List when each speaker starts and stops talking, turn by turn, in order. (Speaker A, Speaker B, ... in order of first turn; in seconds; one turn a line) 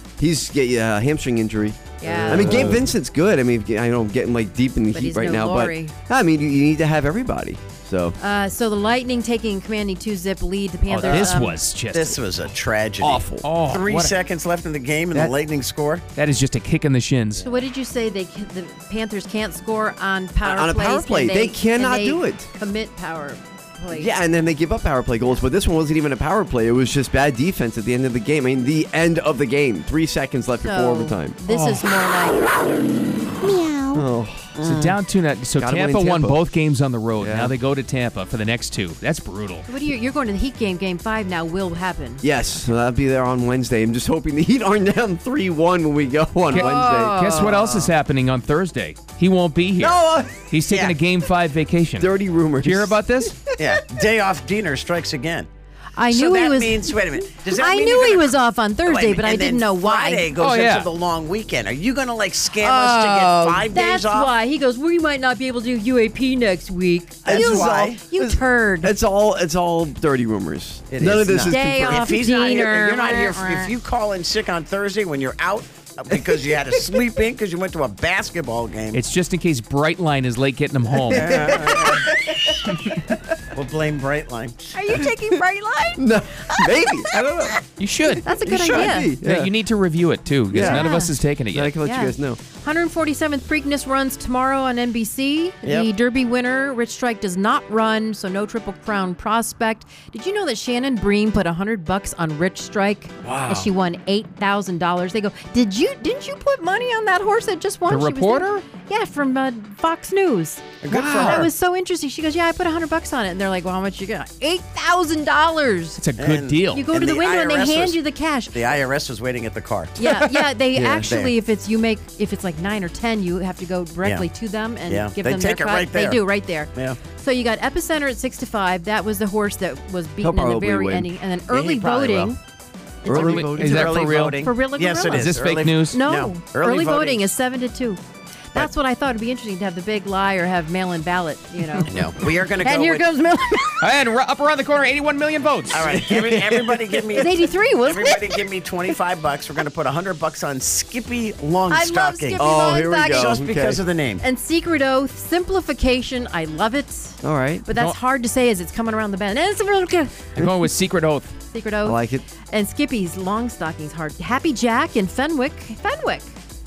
Speaker A: 0.2-8.2
Speaker B: 2.0-2.8
Speaker C: 2.0-2.9
Speaker B: 4.9-5.9
Speaker B: 8.2-11.6
Speaker D: 10.9-12.2
Speaker C: 11.9-16.0
Speaker A: 13.0-13.4
Speaker D: 13.4-14.2
Speaker D: 15.1-15.4
Speaker D: 16.1-17.4
Speaker C: 17.4-17.6
Speaker B: 17.4-24.1
Speaker A: 20.4-22.5
Speaker A: 23.9-31.4
Speaker B: 30.6-32.4
Speaker D: 31.5-31.8
Speaker B: 33.4-34.0
Speaker A: 33.9-34.6
Speaker C: 34.6-34.9
Speaker D: 34.6-39.7
Speaker A: 35.6-36.4
Speaker A: 37.2-37.5
Speaker B: 39.7-42.2
Speaker A: 42.2-47.9
Speaker D: 46.5-53.4
Speaker B: 46.5-47.7
Speaker A: 49.8-50.5
Speaker C: 50.7-51.0
Speaker A: 52.0-53.8
Speaker C: 53.6-55.5
Speaker B: 56.0-56.9
Speaker C: 56.1-64.3
Speaker B: 57.5-60.3
Speaker D: 60.4-60.9
Speaker D: 62.6-63.6
Speaker B: 63.7-68.9
Speaker C: 67.2-68.0
Speaker A: 67.3-72.2
Speaker C: 70.9-79.0
Speaker B: 71.5-73.7
Speaker D: 78.9-81.3
Speaker A: 81.0-83.2
Speaker C: 81.1-82.9
Speaker C: 83.5-84.8
Speaker B: 84.7-87.6
Speaker A: 86.0-87.6
Speaker D: 87.8-91.7
Speaker A: 88.1-89.5
Speaker B: 88.2-89.1
Speaker A: 90.5-90.9
Speaker B: 90.5-91.1
Speaker A: 91.5-92.4
Speaker B: 91.8-116.0
Speaker C: 103.2-103.5
Speaker D: 103.2-103.6
Speaker D: 107.9-108.6
Speaker C: 110.8-111.5
Speaker D: 110.9-111.5
Speaker D: 116.0-116.8
Speaker C: 116.2-120.0
Speaker B: 116.7-118.6
Speaker B: 120.0-132.4
Speaker A: 120.7-121.1
Speaker C: 121.0-121.3
Speaker C: 124.0-124.3
Speaker C: 124.9-126.2
Speaker C: 126.7-127.0
Speaker A: 130.2-131.1
Speaker C: 131.5-132.3
Speaker A: 133.0-133.9
Speaker C: 133.1-137.3
Speaker B: 133.1-133.3
Speaker D: 133.1-134.4
Speaker B: 134.4-135.3
Speaker D: 135.1-136.0
Speaker B: 135.9-138.0
Speaker B: 138.5-141.9
Speaker C: 141.9-143.0
Speaker B: 142.6-143.8
Speaker D: 143.8-146.1
Speaker C: 145.7-154.2
Speaker B: 147.1-148.4
Speaker B: 151.7-153.4
Speaker A: 152.3-153.8
Speaker B: 154.2-160.2
Speaker A: 157.2-157.7
Speaker D: 160.3-161.3
Speaker B: 161.5-162.0
Speaker A: 161.8-162.2
Speaker B: 162.5-166.3